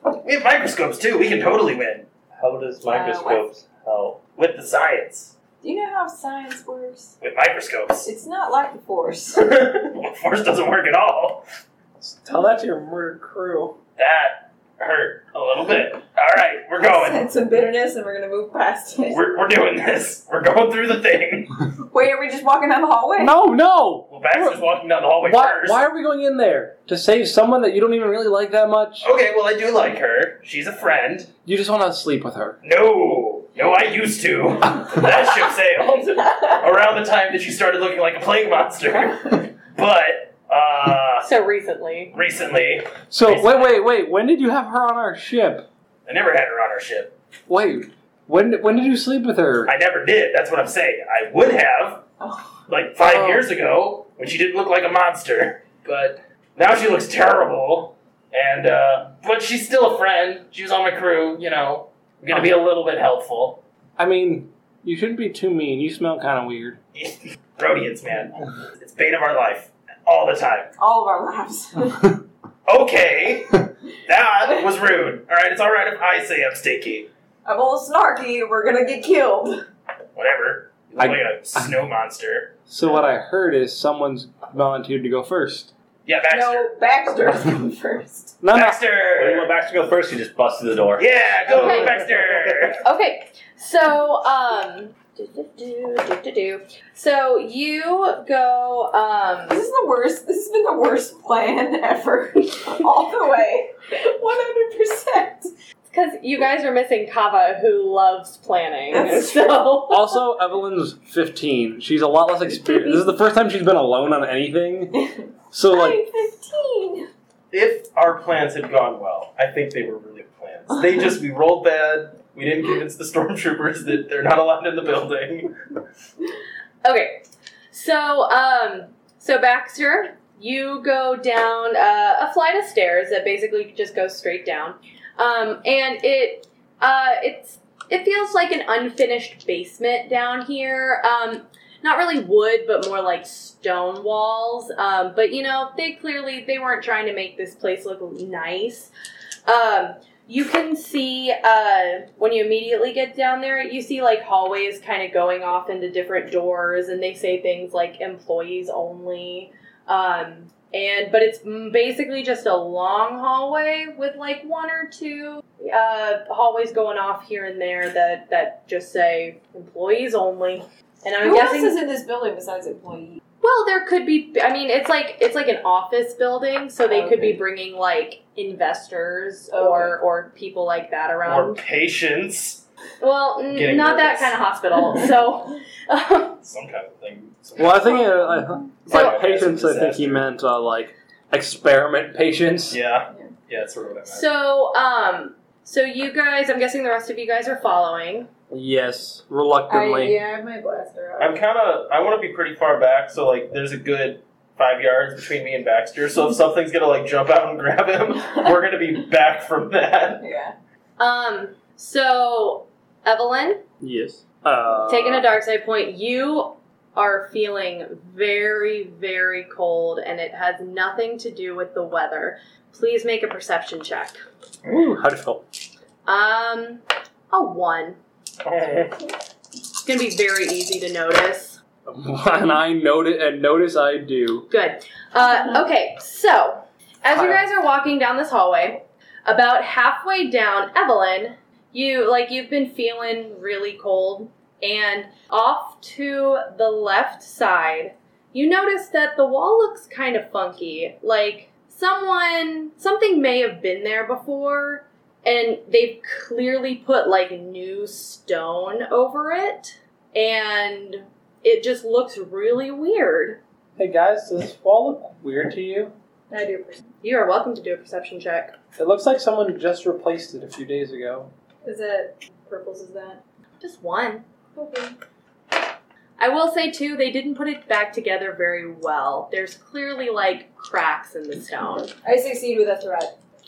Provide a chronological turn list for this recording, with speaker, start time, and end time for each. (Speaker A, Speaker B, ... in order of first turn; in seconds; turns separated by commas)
Speaker A: 0.2-2.1, Speaker B: 2.4-4.2, Speaker C: 2.9-3.4, Speaker A: 4.4-5.3, Speaker C: 5.6-7.2, Speaker A: 7.2-8.1, Speaker C: 8.0-9.5, Speaker A: 9.4-11.4, Speaker D: 12.0-13.8, Speaker A: 14.0-17.3, Speaker C: 16.8-19.2, Speaker A: 19.0-21.6, Speaker C: 21.9-23.4, Speaker D: 23.2-24.6, Speaker A: 24.1-25.8, Speaker D: 25.2-29.1, Speaker A: 29.0-31.3, Speaker D: 31.4-32.6, Speaker A: 32.6-41.3, Speaker E: 41.2-42.1, Speaker A: 42.1-43.8, Speaker D: 43.1-45.6, Speaker A: 46.1-47.1, Speaker D: 47.5-49.7, Speaker A: 49.7-52.0, Speaker C: 52.2-52.6, Speaker A: 52.7-63.6, Speaker D: 53.0-53.5, Speaker D: 64.0-66.8, Speaker A: 67.0-70.7, Speaker C: 70.8-72.2, Speaker A: 72.7-77.1, Speaker C: 77.5-79.6, Speaker A: 80.2-82.6, Speaker D: 81.0-81.7, Speaker D: 82.7-85.7, Speaker A: 86.1-86.7, Speaker C: 86.3-88.4, Speaker D: 88.4-88.8, Speaker A: 88.5-89.5, Speaker B: 89.2-91.1, Speaker A: 91.0-92.8, Speaker E: 91.5-91.9, Speaker E: 92.8-99.6, Speaker C: 99.5-105.5, Speaker E: 105.9-110.2, Speaker C: 108.9-109.5, Speaker D: 109.9-116.0, Speaker C: 115.0-117.1, Speaker A: 117.5-125.6, Speaker E: 126.8-148.9, Speaker E: 149.5-171.8, Speaker C: 171.2-173.2, Speaker E: 173.4-181.6, Speaker C: 176.9-177.4, Speaker C: 179.5-180.0, Speaker A: 181.2-182.6, Speaker E: 183.0-186.4, Speaker A: 183.5-184.4, Speaker A: 186.4-188.3, Speaker D: 187.6-192.8, Speaker E: 188.9-189.2, Speaker A: 188.9-190.2, Speaker A: 192.7-194.3, Speaker E: 194.1-198.3, Speaker D: 198.5-200.2, Speaker C: 199.7-201.4, Speaker A: 201.2-210.2, Speaker C: 210.2-210.6, Speaker E: 211.0-213.6, Speaker D: 213.8-215.3, Speaker E: 214.9-224.2, Speaker D: 224.7-225.4, Speaker E: 226.1-228.0, Speaker E: 229.8-231.6, Speaker D: 231.9-234.5, Speaker E: 234.5-263.4, Speaker D: 237.1-237.5, Speaker D: 263.8-265.9, Speaker C: 266.3-266.8, Speaker E: 267.0-268.6, Speaker D: 268.8-271.3, Speaker C: 271.6-273.2, Speaker E: 273.6-274.3, Speaker C: 274.5-275.0, Speaker E: 276.2-281.9, Speaker C: 282.0-283.1